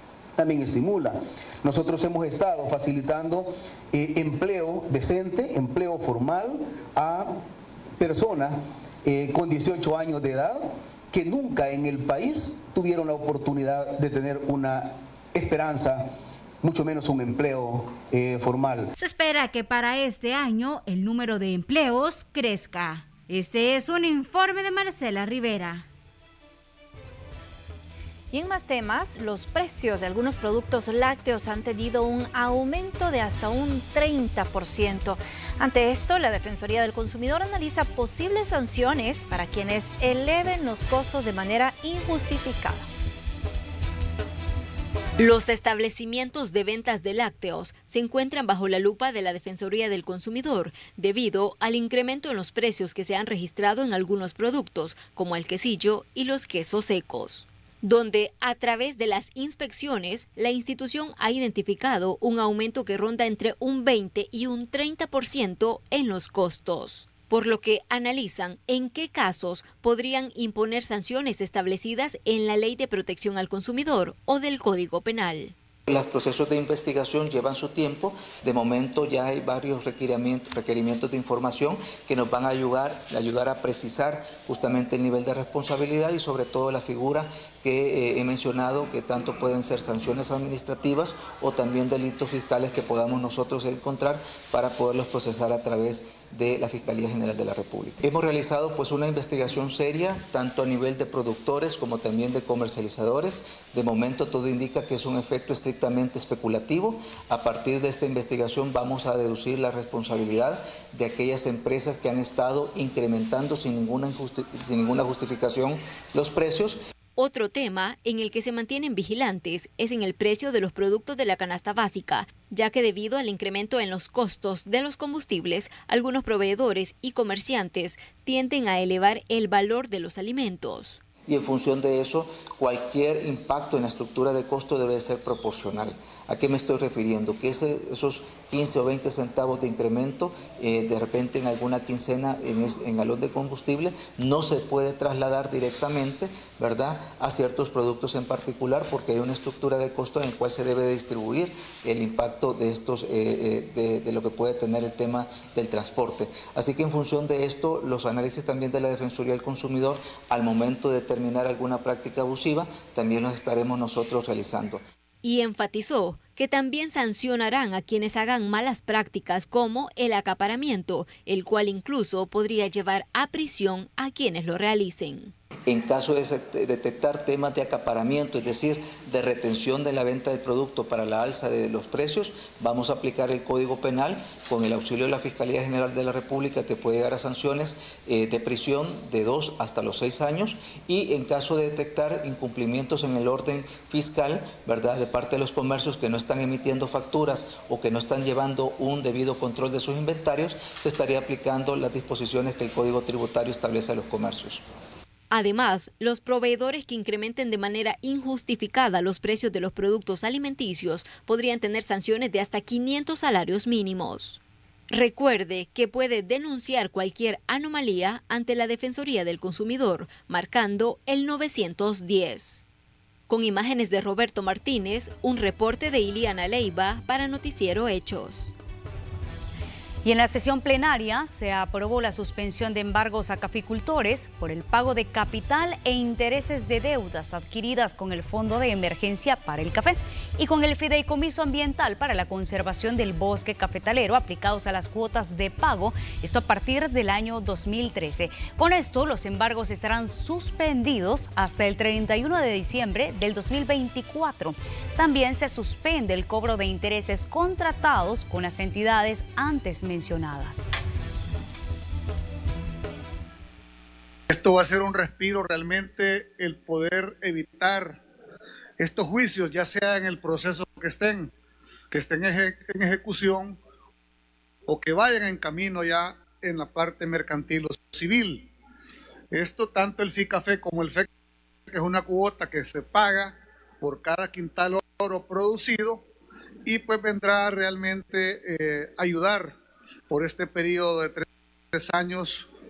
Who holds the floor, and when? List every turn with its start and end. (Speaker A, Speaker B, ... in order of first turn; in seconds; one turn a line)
Speaker A: 0.4-7.4
Speaker A: 8.0-16.1
Speaker A: 16.6-18.9
Speaker B: 19.0-25.9
Speaker C: 28.3-42.9
Speaker D: 45.2-75.5
Speaker E: 75.9-116.8
Speaker D: 117.2-131.0
Speaker E: 131.2-164.8
Speaker D: 165.2-175.3
Speaker E: 175.7-204.6
Speaker D: 205.3-222.6
Speaker D: 223.3-228.5
Speaker F: 230.0-260.7
Speaker G: 264.3-268.0
Speaker G: 268.8-271.3
Speaker G: 271.9-273.6
Speaker G: 274.7-278.5
Speaker G: 279.3-281.1
Speaker G: 281.7-286.0
Speaker G: 286.6-289.6
Speaker G: 290.1-292.5